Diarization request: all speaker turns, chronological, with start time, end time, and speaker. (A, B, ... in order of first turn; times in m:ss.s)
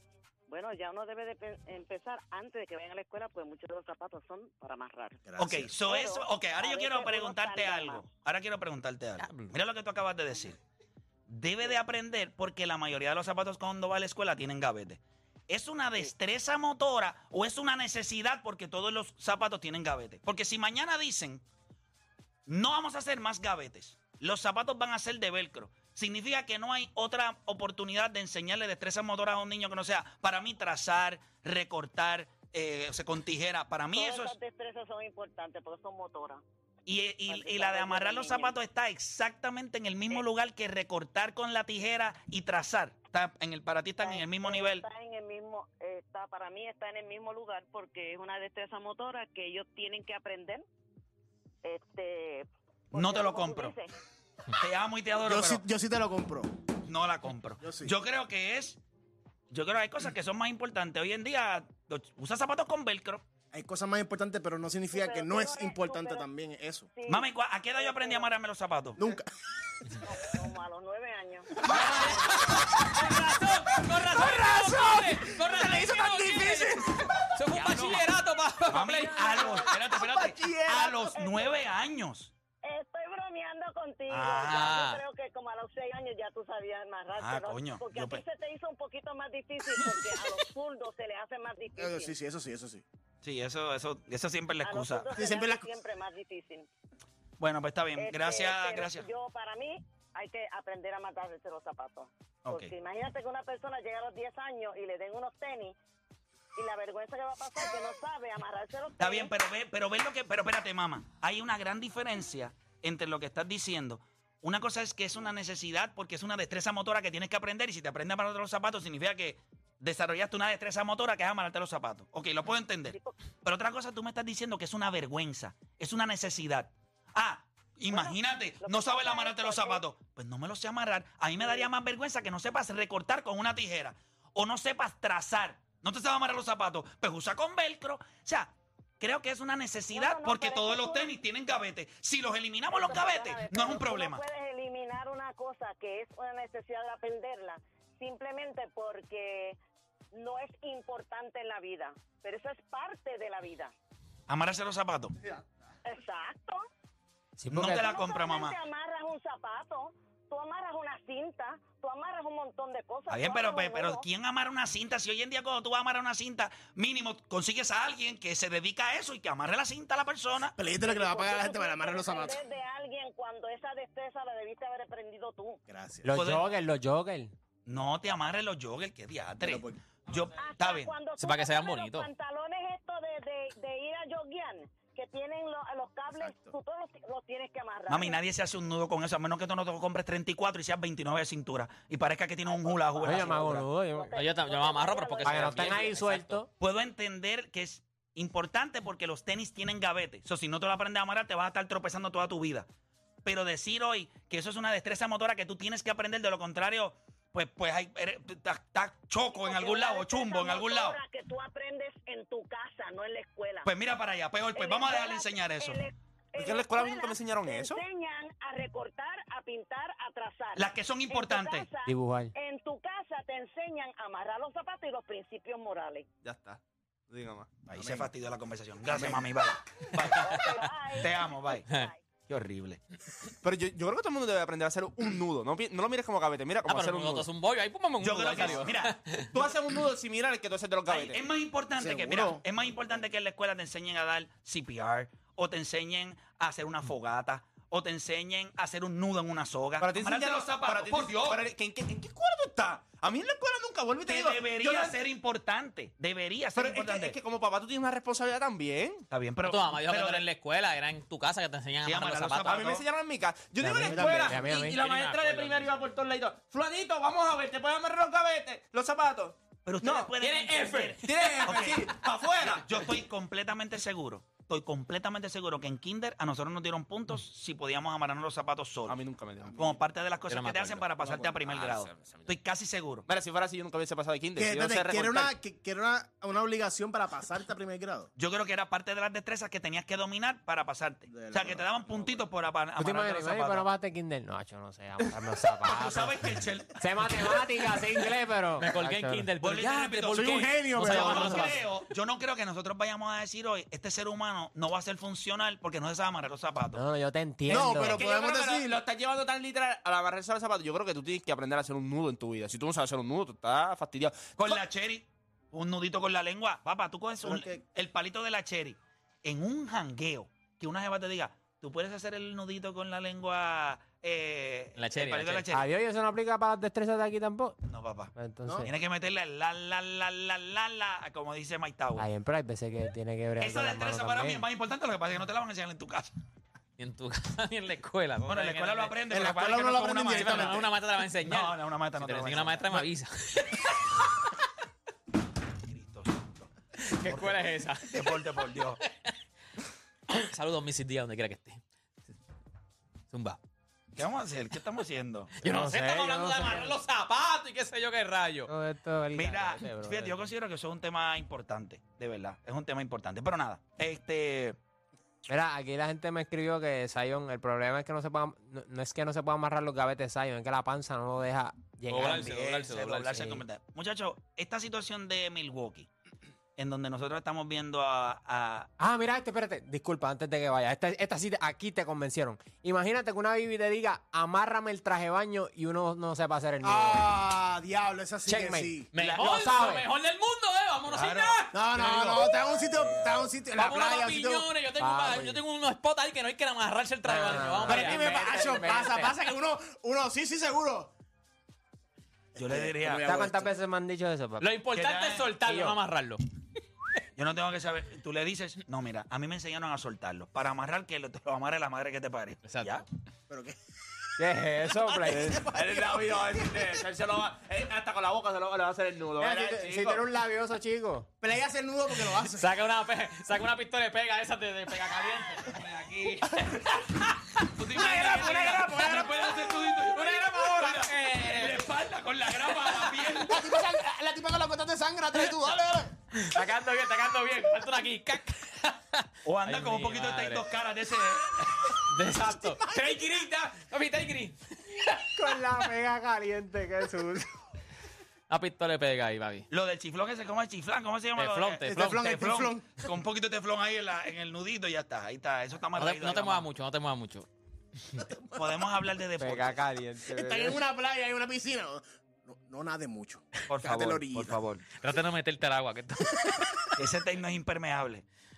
0:00.5-0:05.2 A
0:05.3-0:05.7 B
0:05.4-0:10.6 C
0:05.9-0:08.1 A
0:09.2-0:09.5 D
0:11.3-0:21.4 C
0:22.5-0:34.4 C
0:33.9-0:36.4 A
0:36.9-0:44.8 C
0:37.3-0:38.6 A
0:44.0-0:50.6 A
0:51.6-0:53.9 A
0:52.9-0:53.8 C
0:54.6-0:55.6 C
0:55.2-0:56.5 B
0:56.9-0:58.8 C
0:57.6-0:57.9 B
0:59.5-1:03.2 C
1:03.5-1:06.9 B
1:04.9-1:06.3 A
1:07.0-1:08.3 A
1:07.1-1:09.0 C
1:09.0-1:09.3 B
1:10.0-1:12.1 A
1:11.6-1:12.1 B
1:11.7-1:12.1 C
1:11.7-1:19.5 D
1:12.8-1:18.0 B
1:17.6-1:18.0 C
1:18.7-1:22.3 C
1:18.8-1:21.2 B
1:19.3-1:19.7 A
1:21.1-1:21.6 A
1:22.6-1:32.1 A
1:24.1-1:24.7 C
1:24.5-1:25.0 D
1:27.2-1:28.2 C
1:31.8-1:32.8 B
1:33.2-1:35.1 C
1:34.6-1:36.7 A
1:35.1-1:35.7 B
1:37.4-1:39.0 C
1:38.0-1:45.8 A
1:42.4-1:42.7 C
1:46.6-1:49.3 A
1:49.0-2:24.2 C
2:07.9-2:09.8 A
2:11.4-2:11.7 A
2:19.9-2:21.1 A
2:22.7-2:29.6 A
2:30.1-2:33.7 A
2:34.3-2:35.2 C
2:35.8-2:36.6 A
2:37.4-2:37.9 E
2:37.5-2:38.6 C
2:37.6-2:44.0 A
2:43.1-2:50.6 C
2:50.6-2:52.4 B
2:50.8-2:55.6 A
2:55.7-2:56.1 B
2:56.0-2:57.3 E
2:56.1-2:56.5 C
2:57.7-3:00.9 C
2:59.4-2:59.8 B
3:00.4-3:08.2 A
3:01.2-3:02.1 D
3:06.2-3:06.5 B
3:07.9-3:13.7 C
3:12.4-3:16.0 A
3:13.0-3:14.1 E
3:14.1-3:16.4 D
3:15.2-3:16.5 E
3:16.6-3:22.7 C
3:23.2-3:31.0 C
3:29.3-3:33.7 A
3:33.6-3:35.8 C
3:34.6-3:46.1 A
3:36.4-3:37.8 F
3:40.6-3:41.7 C
3:41.8-3:42.3 E
3:46.2-3:47.5 F
3:47.7-3:50.5 C
3:47.7-3:48.1 B
3:48.9-3:49.3 B
3:50.0-3:50.7 D
3:50.0-3:52.0 A
3:51.0-3:51.7 C
3:52.3-3:52.8 C
3:53.4-3:57.3 F
3:56.7-3:59.4 D
3:58.0-3:59.0 C
3:58.2-3:58.7 F
3:59.3-4:01.2 F
4:00.9-4:11.4 C
4:01.8-4:02.4 B
4:09.8-4:15.0 F
4:14.1-4:17.2 C
4:16.6-4:19.1 F
4:19.1-4:20.2 C
4:19.5-4:22.6 D
4:21.8-4:22.8 C
4:22.5-4:30.2 F
4:23.6-4:24.8 E
4:23.8-4:24.4 B
4:24.6-4:25.7 D
4:29.6-4:31.9 C
4:30.2-4:31.8 D
4:31.0-4:32.9 F
4:32.4-4:39.0 C
4:38.9-4:39.8 F
4:39.6-4:43.1 C
4:40.3-4:40.9 D
4:41.0-4:42.3 F
4:43.1-4:45.3 F
4:44.4-4:48.1 B
4:48.2-4:53.7 C
4:51.1-4:52.2 B
4:52.8-4:59.3 E
4:55.7-4:56.8 C
4:58.6-5:01.6 D
4:59.4-5:06.8 C
5:00.1-5:01.6 B
5:06.7-5:08.0 E
5:07.5-5:08.8 B
5:07.5-5:14.6 F
5:14.4-5:25.7 C
5:17.2-5:17.6 B
5:24.8-5:25.5 D
5:25.5-5:27.6 E
5:27.7-5:32.1 C
5:28.2-5:28.7 E
5:32.0-5:34.4 E
5:33.4-5:36.1 C
5:36.8-5:39.0 D
5:38.3-5:40.7 C
5:39.1-5:40.7 B
5:40.1-5:44.3 D
5:41.2-5:42.8 C
5:45.6-5:46.5 C
5:46.8-5:48.2 D
5:47.0-5:48.8 C
5:48.8-5:49.1 D
5:50.1-5:51.6 D
5:53.1-5:53.4 D
5:54.0-5:55.4 C
5:55.4-5:58.5 D
5:55.4-5:56.8 E
5:58.5-6:00.3 E
5:59.1-6:04.6 C
6:05.3-6:12.4 E
6:11.9-6:13.4 D
6:11.9-6:15.9 C
6:16.6-6:18.7 C
6:18.8-6:27.1 E
6:26.6-6:28.9 B
6:28.3-6:29.9 E
6:28.9-6:31.5 D
6:29.0-6:29.3 C
6:30.9-6:32.2 C
6:31.5-6:34.5 B
6:33.5-6:38.5 D
6:34.8-6:35.4 E
6:37.0-6:39.2 E
6:37.7-6:40.9 B
6:42.4-6:43.1 C
6:42.4-6:43.5 B
6:43.1-6:44.5 E
6:44.4-6:46.2 D
6:44.7-6:45.3 C
6:45.4-6:45.8 E
6:47.2-6:52.9 C
6:52.4-6:52.8 D
6:53.3-6:53.6 B
6:54.2-6:55.4 E
6:55.0-7:00.1 F
6:55.1-6:56.2 B
6:59.2-7:01.1 E
7:01.2-7:02.6 B
7:02.1-7:05.6 D
7:05.4-7:06.4 C
7:06.2-7:11.7 D
7:07.6-7:13.4 C
7:07.7-7:09.8 B
7:08.5-7:08.9 E
7:12.5-7:13.3 D
7:13.2-7:16.0 B
7:16.1-7:20.5 D
7:19.3-7:21.8 C
7:21.7-7:25.7 D
7:25.2-7:27.4 E
7:28.3-7:29.5 D
7:29.5-7:36.5 C
7:31.2-7:32.0 D
7:31.6-7:32.7 B
7:35.8-7:37.3 D
7:38.4-7:39.6 C
7:39.2-7:40.6 E
7:40.1-7:44.4 B
7:43.5-7:44.6 C
7:44.8-7:46.7 D
7:46.8-7:48.1 C